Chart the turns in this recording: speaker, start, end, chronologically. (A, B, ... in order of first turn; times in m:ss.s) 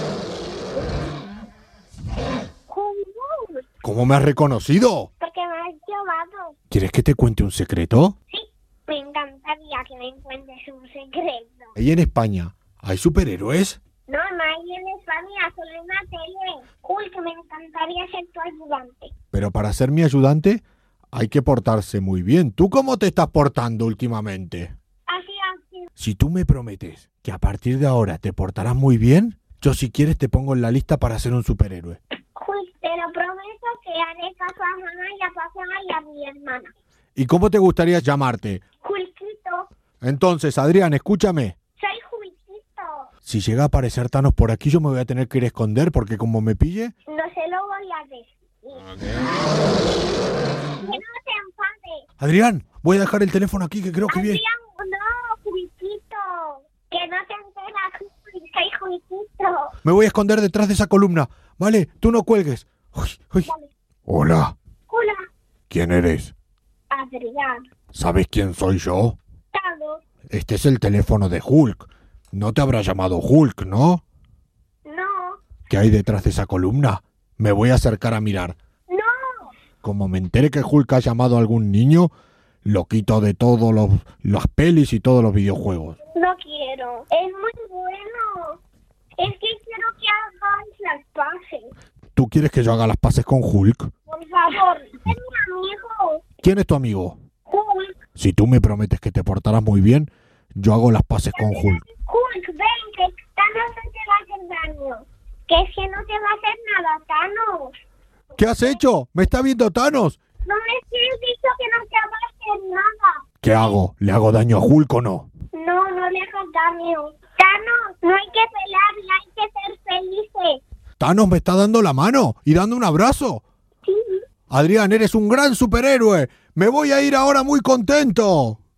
0:02.7-0:03.6 A
0:03.8-0:05.1 B
0:05.2-0:06.6 A
0:06.7-0:08.1 B
0:08.3-0:11.8 A
0:11.8-0:13.8 B
0:14.1-0:19.1 A
0:19.3-0:24.7 B
0:25.1-0:25.9 A
0:26.0-0:32.0 B
0:32.3-0:36.7 A
0:37.2-0:38.6 B
0:38.8-0:39.7 A
0:40.0-0:41.5 B
0:41.8-0:43.1 A
0:43.2-0:46.9 B
0:47.1-0:49.6 A
0:50.8-0:52.0 A
0:52.2-0:54.4 B
0:54.1-0:59.7 A
0:59.8-1:03.5 B
1:03.4-1:03.7 A
1:04.1-1:04.5 B
1:04.9-1:05.3 A
1:05.7-1:06.3 B
1:06.9-1:07.6 A
1:07.9-1:09.2 B
1:09.5-1:10.0 A
1:10.3-1:14.0 B
1:14.8-1:15.4 A
1:15.7-1:18.6 B
1:18.9-1:19.5 A
1:19.8-1:22.1 B
1:22.6-1:26.0 B
1:26.1-1:28.6 A
1:29.2-1:31.7 A
1:32.2-1:33.9 B
1:34.1-1:36.2 A
1:36.4-1:37.2 B
1:37.4-1:37.9 A
1:38.2-1:41.8 B
1:41.3-1:47.7 A
1:48.4-1:50.2 B
1:48.4-1:48.8 A
1:50.5-1:53.8 A
1:53.4-1:55.3 B
1:55.5-2:00.6 A
2:01.0-2:03.4 B
2:03.8-2:04.2 A
2:04.5-2:08.6 B